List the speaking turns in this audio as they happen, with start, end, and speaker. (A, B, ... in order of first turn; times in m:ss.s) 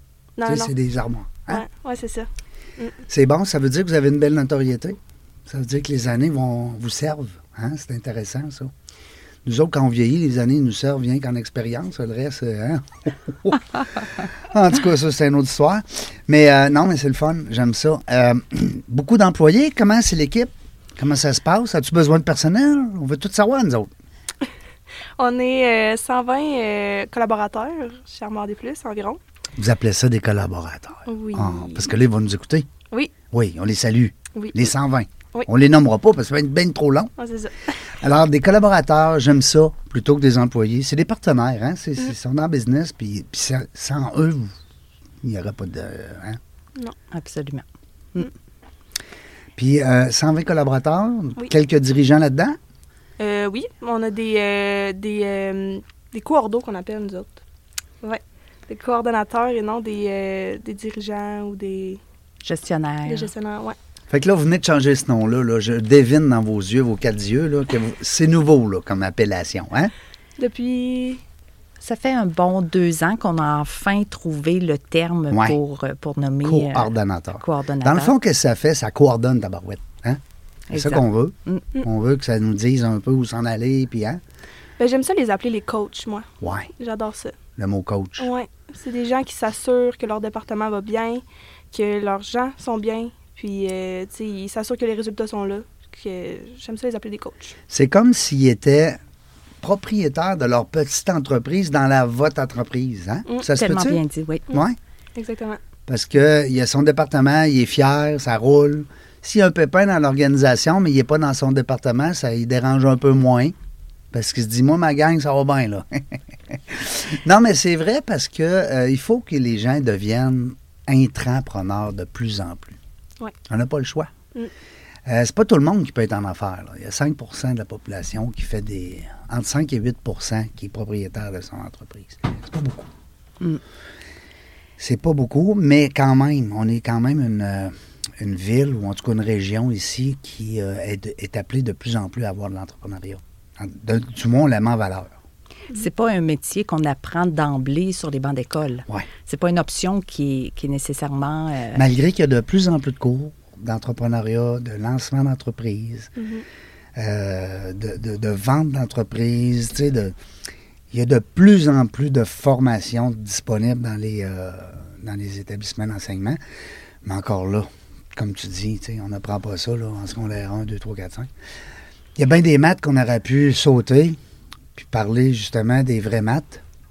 0:00.4-0:00.7 A
0:00.5-0:01.6 B
0:01.5-0:03.0 A
0:03.1-0:08.7 B
0:09.4-0:23.9 B
0:25.2-0:29.2 A
0:29.6-0:32.7 B
0:31.1-0:31.9 A
0:33.3-0:37.1 B
0:37.2-0:37.8 A
0:38.0-0:44.5 B
0:45.2-0:46.4 B
0:47.1-0:48.3 C
0:49.6-0:52.6 B
0:53.2-0:57.4 A
0:58.0-1:02.0 A
1:02.4-1:03.3 C
1:03.1-1:03.8 A
1:04.1-1:09.9 B
1:10.4-1:11.2 A
1:11.8-1:18.2 C
1:15.3-1:15.6 B
1:16.4-1:20.2 B
1:20.7-1:21.6 C
1:20.7-1:24.2 B
1:24.8-1:27.4 A
1:26.4-1:26.7 B
1:27.6-1:28.3 B
1:28.2-1:37.6 A
1:37.7-1:39.0 B
1:39.6-1:44.8 B
1:43.5-1:44.4 C
1:45.2-1:45.6 A
1:45.9-1:53.6 B
1:54.1-2:02.8 B
2:03.5-2:04.1 B
2:05.1-2:12.9 B
2:14.8-2:25.1 B
2:25.7-2:31.8 C
2:31.7-2:36.1 B
2:36.2-2:36.4 A
2:37.0-2:40.2 B
2:40.9-2:46.4 B
2:47.0-2:51.3 B
2:52.2-2:54.2 B
2:54.8-2:56.6 B